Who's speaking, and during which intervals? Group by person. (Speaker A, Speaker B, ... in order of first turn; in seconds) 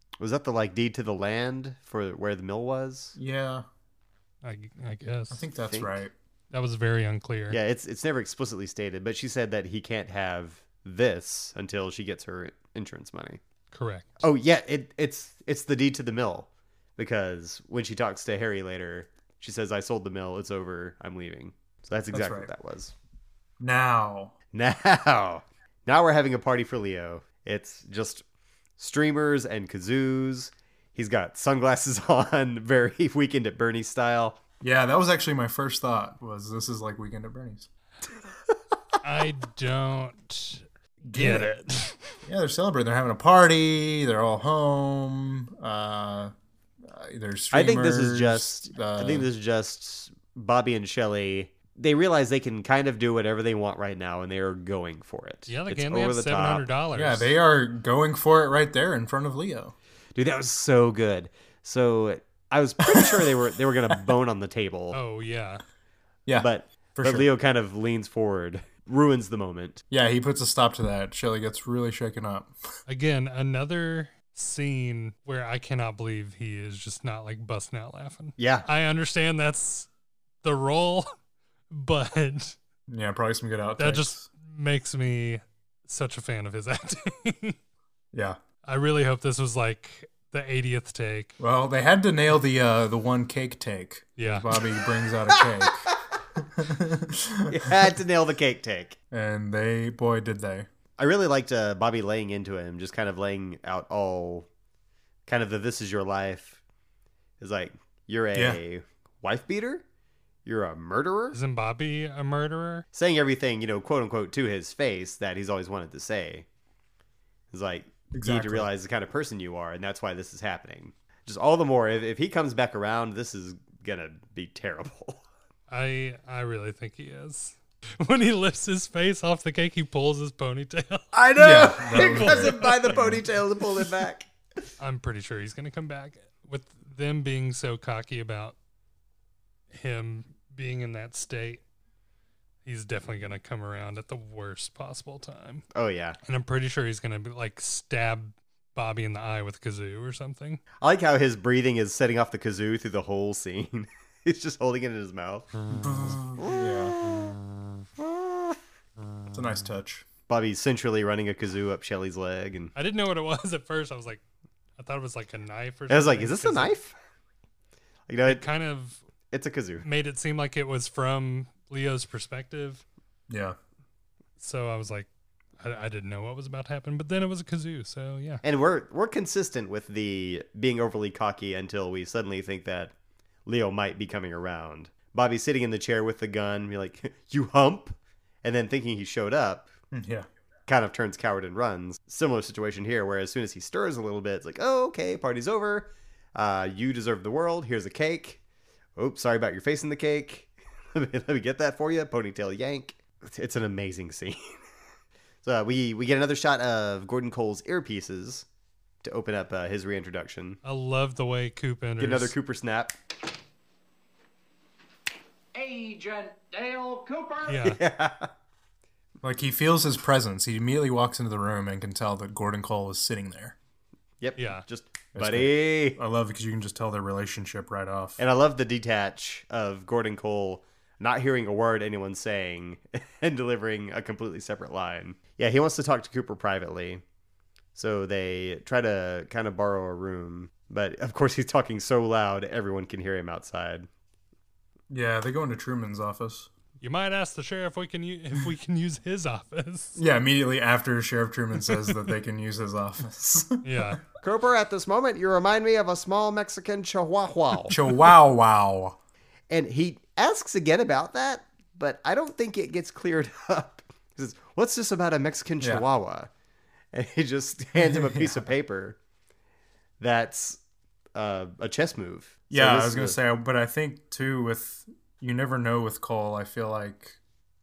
Speaker A: 0.2-3.2, 5.7-6.0, 7.5-13.4, 14.2-22.9, 24.5-28.2, 28.8-34.4, 47.5-56.6, 60.1-65.0, 66.4-69.8, 78.4-78.7, 97.5-99.0, 101.0-104.5, 105.3-106.6, 107.4-109.8, 110.5-111.4, 112.9-116.5, 117.5-125.2, 131.1-134.3, 145.7-146.2, 150.8-155.5, 156.4-157.3, 158.0-158.6, 160.3-162.7, 165.9-166.9, 168.1-168.5, 169.3-169.8, 178.4-182.9, 183.5-189.7, 190.7-198.4, 199.0-204.6, 205.4-208.5, 209.0-210.6, 212.0-213.0, 217.6-218.3, 224.2-226.0, 228.2-237.0, 237.8-243.9, 254.2-257.9, 259.5-266.3, 266.9-269.0, 270.0-270.6, 271.1-273.2
Speaker B: 3.2-3.7, 5.3-6.1, 22.1-22.5, 23.6-24.3, 34.6-37.7, 41.0-41.6, 42.2-46.3, 46.8-49.3, 56.9-59.8, 62.8-63.4, 66.3-67.3, 69.9-72.5, 82.9-84.2, 88.1-88.4, 91.4-97.9, 99.1-100.7, 108.3-108.6, 118.1-118.7, 131.4-133.2, 155.7-157.2, 159.3-160.1, 173.3-173.6, 189.9-190.3, 219.2-223.6, 225.1-228.2, 244.9-246.5, 250.0-254.0, 257.7-259.0, 267.8-268.5, 272.5-277.2
Speaker C: 4.4-5.5, 6.5-7.6, 13.7-14.2, 39.0-40.6, 41.2-41.9, 55.5-57.3, 64.9-65.6, 72.9-79.9, 80.4-81.1, 81.7-82.6, 83.8-87.6, 88.7-91.3, 94.2-94.6, 111.3-112.9, 125.7-131.1, 131.8-133.0, 134.8-138.6, 139.7-141.6, 142.7-145.7, 146.2-150.6, 162.8-164.2, 164.8-166.8, 168.3-169.0, 169.8-172.8, 174.4-178.4, 210.6-212.3, 217.5-217.8, 224.4-224.7, 246.8-250.0, 253.6-254.0
Speaker D: 215.5-217.6